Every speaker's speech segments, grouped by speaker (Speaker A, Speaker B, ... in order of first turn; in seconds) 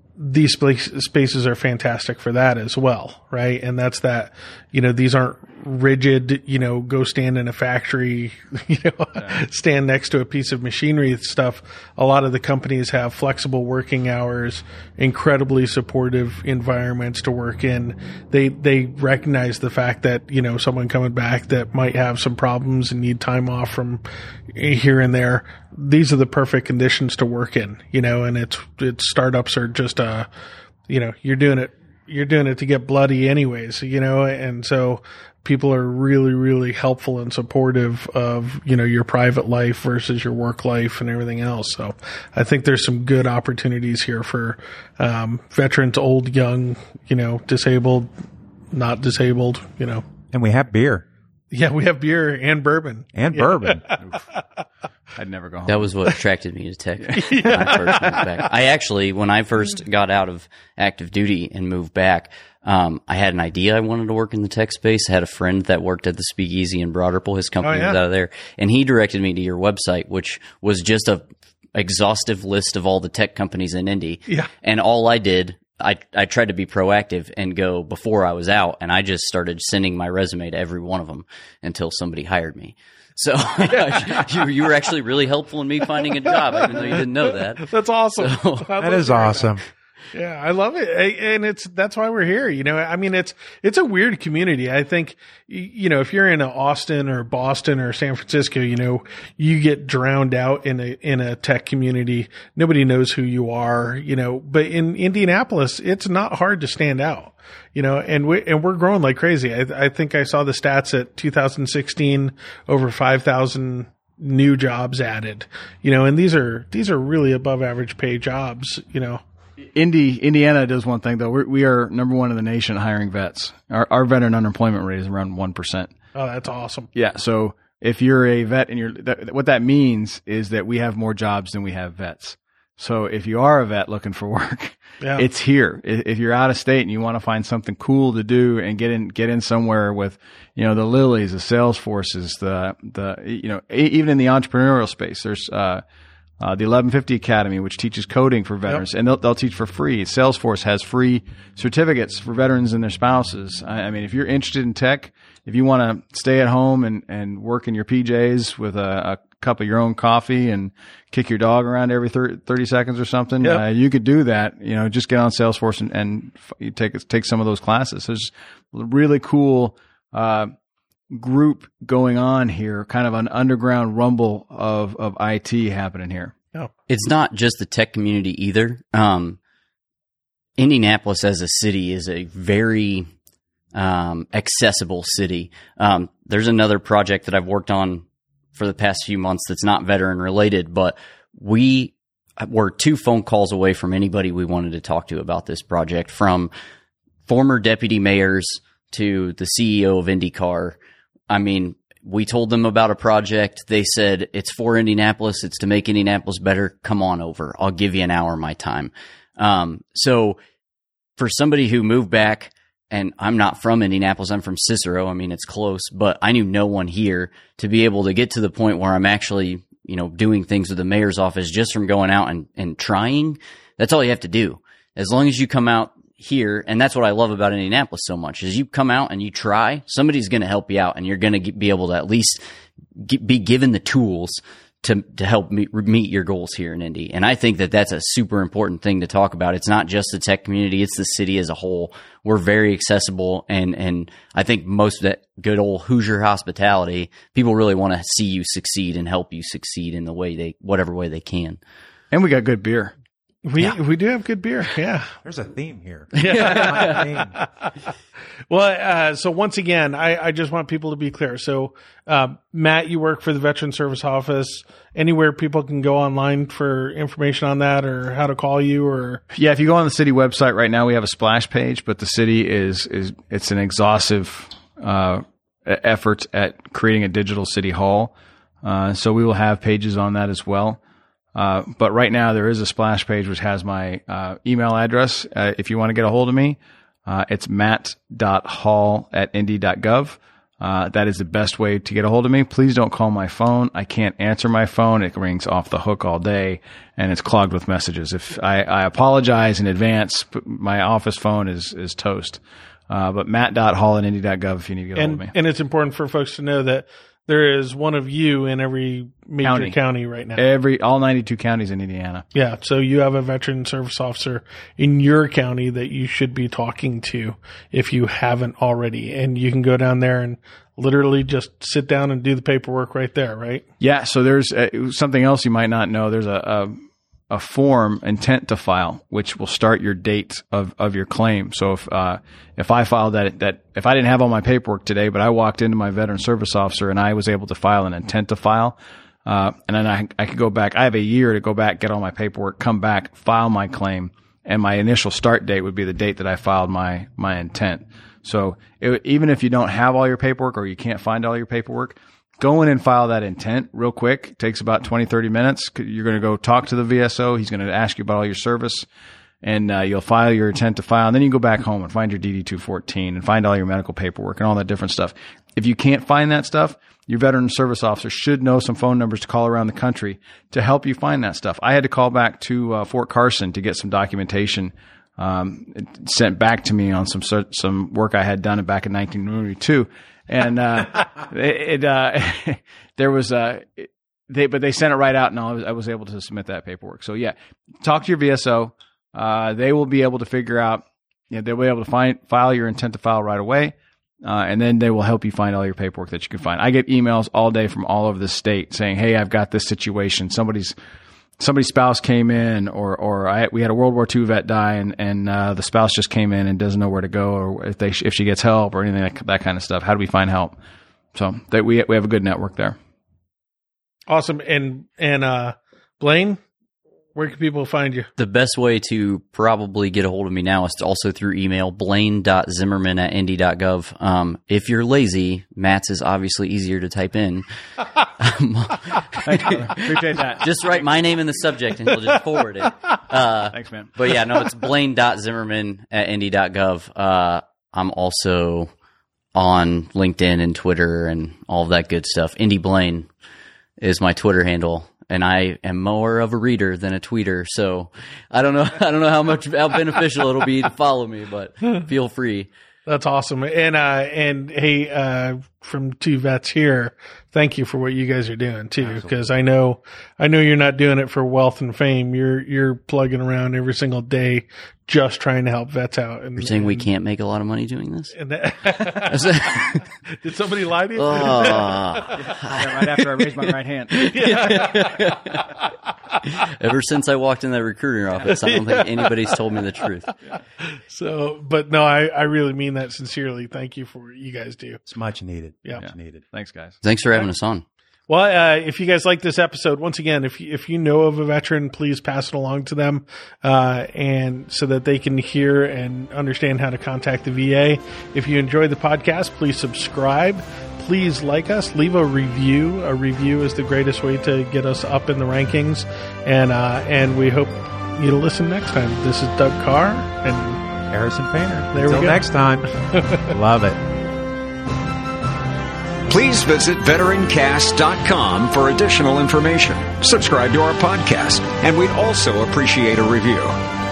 Speaker A: 0.2-24.0, 24.5-30.3, 30.9-48.1, 48.7-50.0, 51.5-54.0, 57.1-58.4, 67.6-68.0, 86.2-89.6, 90.1-119.2, 126.2-126.9, 135.0-135.3, 253.4-255.1, 256.2-257.7, 258.5-269.2, 305.0-310.4, 312.3-323.7, 414.1-416.4, 417.1-418.1, 452.9-466.9, 468.1-472.3, 474.0-476.2, 478.3-479.4, 480.7-484.8, 488.1-510.6, 511.7-512.2, 512.9-513.3
Speaker B: 50.3-51.0, 53.1-53.9, 88.8-89.6, 255.2-257.3, 458.9-459.1, 484.9-486.2, 510.9-512.7, 513.3-513.8
Speaker C: 55.1-55.9, 57.0-57.3, 119.7-125.9, 126.9-145.8, 146.4-170.5, 171.1-176.3, 252.1-252.9, 269.3-278.1, 278.6-280.8, 281.4-305.3, 309.4-309.8, 310.4-312.2, 323.8-326.8, 327.3-358.9, 359.4-400.8, 401.4-410.5, 411.1-412.8, 429.2-430.9, 433.5-433.9, 472.1-474.6, 485.8-486.8
Speaker D: 55.7-88.7, 176.9-179.4, 180.6-183.1, 183.7-188.0, 188.6-196.5, 197.3-200.8, 201.3-210.4, 211.2-232.4, 232.9-251.6, 256.3-257.0, 418.2-427.5, 428.0-438.7, 439.4-443.1, 443.8-452.5, 466.4-468.1, 468.9-469.9, 471.0-473.1, 473.9-475.5, 476.3-480.1, 486.8-487.6
Speaker E: 516.1-523.6